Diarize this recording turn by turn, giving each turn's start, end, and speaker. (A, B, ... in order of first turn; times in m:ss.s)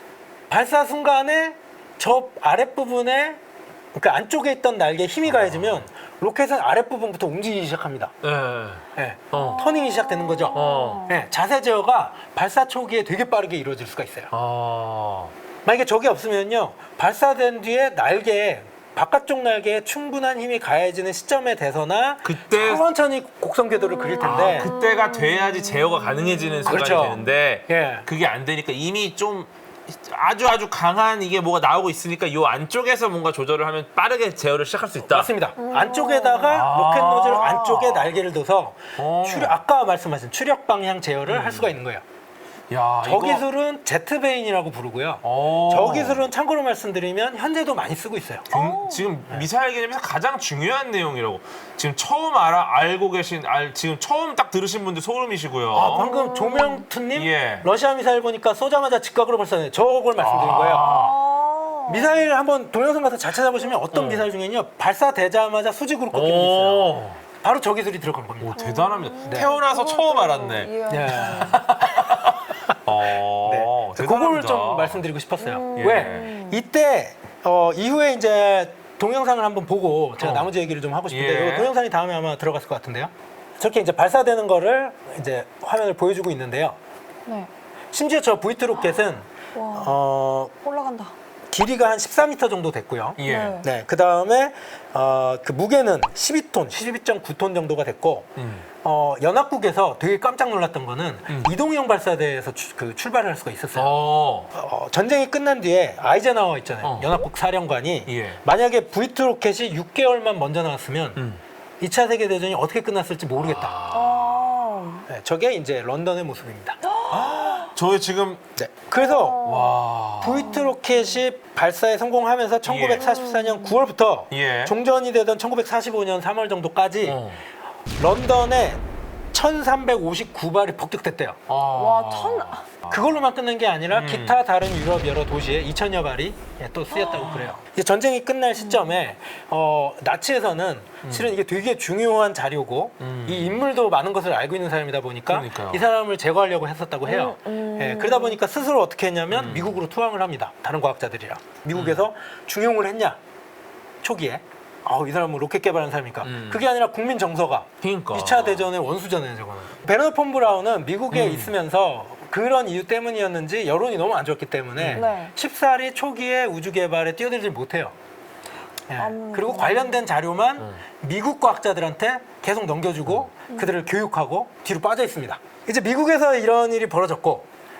0:00.5-0:03.4 A
0:04.0-0:08.2 A
0:05.3-0:05.8 B
0:08.2-0:09.7 B
0:09.0-0:14.3 A
0:09.3-0:11.1 C
0:10.5-0:11.1 B
0:14.3-0:15.3 B
0:15.6-0:24.7 A
0:22.2-0:22.8 B
0:24.0-0:27.1 C
0:24.2-0:35.3 B
0:26.6-0:28.1 A
0:35.1-0:42.0 A
0:35.6-0:36.6 C
0:36.5-0:38.1 B
0:39.0-0:39.6 B
0:41.3-0:41.8 B
0:42.7-0:43.4 B
0:43.0-0:48.5 A
0:45.2-0:46.2 B
0:48.5-0:56.0 B
0:48.5-0:49.1 C
0:55.7-1:00.9 A
0:55.8-0:56.9 C
0:57.1-0:57.7 B
1:00.2-1:01.2 B
1:00.7-1:02.3 C
1:01.9-1:08.6 A
1:03.9-1:04.3 B
1:06.1-1:07.2 B
1:08.4-1:15.0 B
1:08.6-1:11.6 C
1:09.2-1:09.5 A
1:10.9-1:12.3 A
1:13.4-1:26.8 A
1:15.4-1:16.6 C
1:15.8-1:16.3 B
1:20.2-1:20.5 B
1:21.1-1:21.7 B
1:27.9-1:30.5 A
1:29.5-1:30.0 C
1:30.6-1:31.1 C
1:31.5-1:38.3 A
1:33.2-1:33.6 B
1:33.2-1:33.7 C
1:38.4-1:38.7 B
1:38.8-1:43.9 A
1:43.8-1:44.5 B
1:44.5-1:51.2 A
1:46.8-1:47.1 B
1:48.1-1:48.4 B
1:51.2-1:51.4 B
1:51.8-1:53.8 A
1:53.4-1:54.5 B
1:53.9-1:55.0 C
1:55.1-1:56.8 A
1:57.0-1:57.7 C
1:57.1-1:58.4 B
1:58.6-1:59.5 A
1:59.0-1:59.8 C
1:59.4-2:00.6 B
2:00.2-2:07.2 A
2:00.4-2:00.8 C
2:02.6-2:03.0 B
2:02.9-2:03.8 C
2:04.3-2:04.7 B
2:07.0-2:07.4 B
2:08.0-2:08.8 A
2:09.3-2:11.4 A
2:11.5-2:13.1 B
2:11.7-2:12.6 C
2:12.9-2:33.2 A
2:13.9-2:14.4 B
2:16.9-2:17.3 C
2:17.2-2:17.5 B
2:18.6-2:19.0 C
2:21.0-2:21.3 B
2:23.0-2:23.6 B
2:25.3-2:25.9 B
2:27.0-2:28.4 C
2:29.3-2:29.8 B
2:31.7-2:32.1 B
2:34.0-2:47.9 A
2:36.2-2:36.6 B
2:37.8-2:38.7 B
2:41.1-2:41.5 B
2:44.8-2:45.0 B
2:44.9-2:45.3 C
2:48.9-2:57.5 A
2:49.0-2:50.0 C